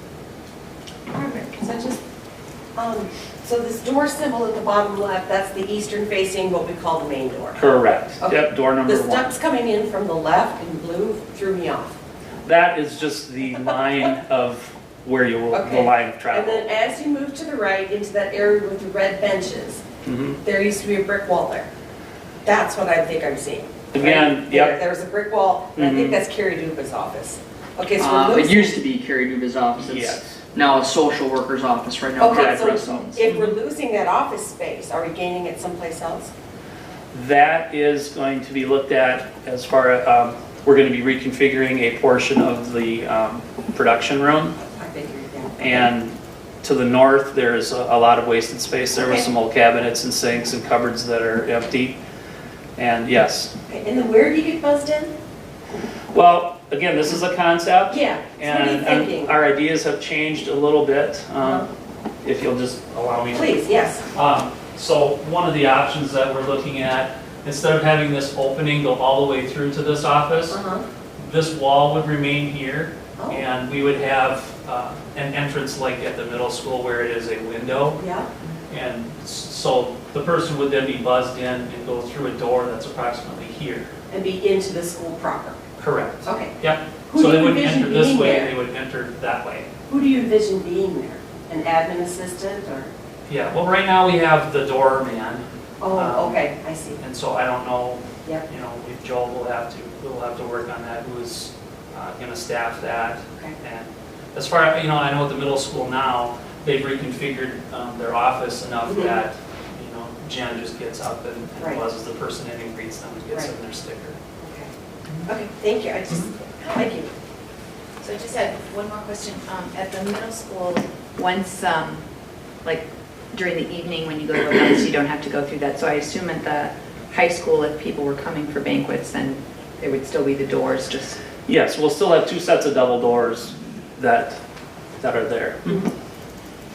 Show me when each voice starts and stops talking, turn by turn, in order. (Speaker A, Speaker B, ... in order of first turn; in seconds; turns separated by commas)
Speaker A: 1.1-2.0, Speaker A: 2.8-7.6, Speaker B: 7.6-9.3, Speaker A: 8.2-12.0, Speaker B: 12.4-16.6, Speaker A: 15.5-19.8, Speaker B: 20.1-20.4, Speaker A: 20.4-21.7, Speaker A: 22.4-28.8, Speaker B: 23.9-24.8, Speaker B: 25.8-26.2, Speaker C: 28.0-32.7, Speaker B: 29.8-30.3, Speaker A: 32.2-36.3, Speaker B: 32.3-33.5, Speaker B: 37.1-44.6, Speaker A: 44.6-45.9, Speaker B: 45.6-52.0, Speaker B: 52.8-53.5, Speaker A: 53.7-55.1, Speaker B: 56.1-61.7, Speaker A: 57.9-59.3, Speaker A: 61.4-61.7, Speaker B: 62.2-63.6, Speaker A: 63.3-64.0, Speaker B: 64.1-70.6, Speaker A: 70.5-70.8, Speaker B: 71.2-78.0, Speaker A: 78.0-78.3, Speaker B: 78.7-83.9, Speaker A: 84.1-85.6, Speaker B: 85.8-89.7, Speaker A: 86.2-88.5, Speaker A: 89.9-92.9, Speaker B: 93.3-114.2, Speaker A: 95.8-97.0, Speaker A: 108.9-109.2, Speaker A: 114.4-114.7, Speaker A: 115.3-117.1, Speaker D: 118.0-122.0, Speaker D: 122.6-131.2, Speaker B: 131.5-134.4, Speaker B: 135.0-135.9